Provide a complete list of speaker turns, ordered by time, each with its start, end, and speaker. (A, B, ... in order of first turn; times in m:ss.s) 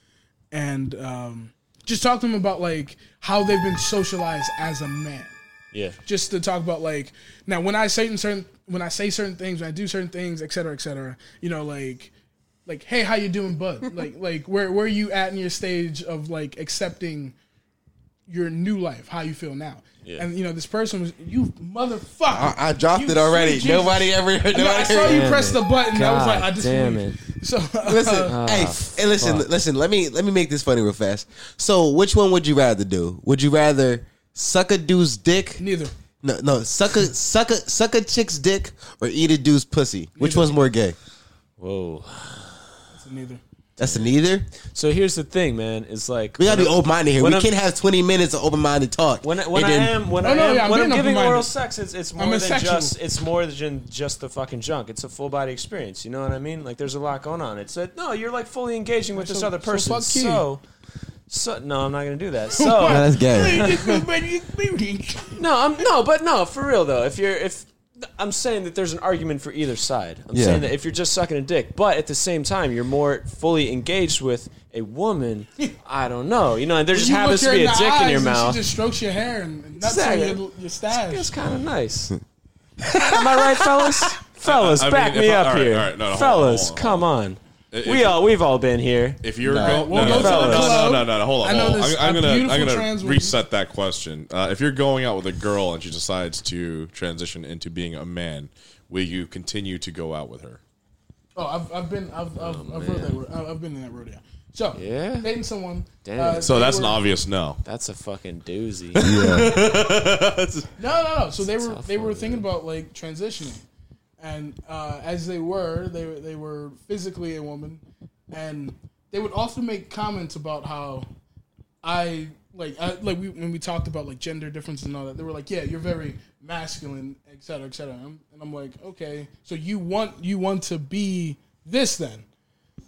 0:00.5-0:05.3 A
0:05.7-0:06.0 B
0:06.0-0:12.1 A
0:12.6-0:17.3 A
0:18.3-0:28.4 A
0:20.0-0:20.3 B
0:22.3-0:25.4 C
0:25.0-0:27.2 B
0:27.8-0:35.6 C
0:28.2-0:29.5 B
0:35.6-0:35.9 A
0:36.2-0:41.0 C
0:40.2-0:40.5 B
0:41.6-0:42.8 B
0:42.9-0:43.4 A
0:43.8-0:44.5 C
0:43.8-0:47.5 B
0:46.4-0:50.0 C
0:49.2-1:00.6 B
0:50.2-0:51.5 A
0:52.2-0:52.9 A
0:59.2-1:00.4 A
1:01.3-1:04.0 B
1:02.6-1:05.4 A
1:02.8-1:03.7 C
1:05.4-1:18.6 B
1:10.3-1:10.6 C
1:16.9-1:21.3 A
1:19.8-1:22.2 B
1:22.9-1:23.2 C
1:22.9-1:29.2 B
1:24.4-1:27.0 D
1:27.7-1:28.2 D
1:29.2-1:40.6 D
1:29.4-1:30.2 C
1:29.5-1:33.4 A
1:29.9-1:31.0 B
1:41.3-1:47.0 A
1:42.4-1:43.2 B
1:44.7-1:45.3 B
1:46.0-1:46.6 B
1:46.4-1:47.6 D
1:47.6-1:49.0 B
1:49.0-1:50.7 D
1:49.0-1:49.6 C
1:50.8-1:53.6 A
1:51.6-1:52.5 B
1:54.2-2:01.1 A
2:01.8-2:12.2 A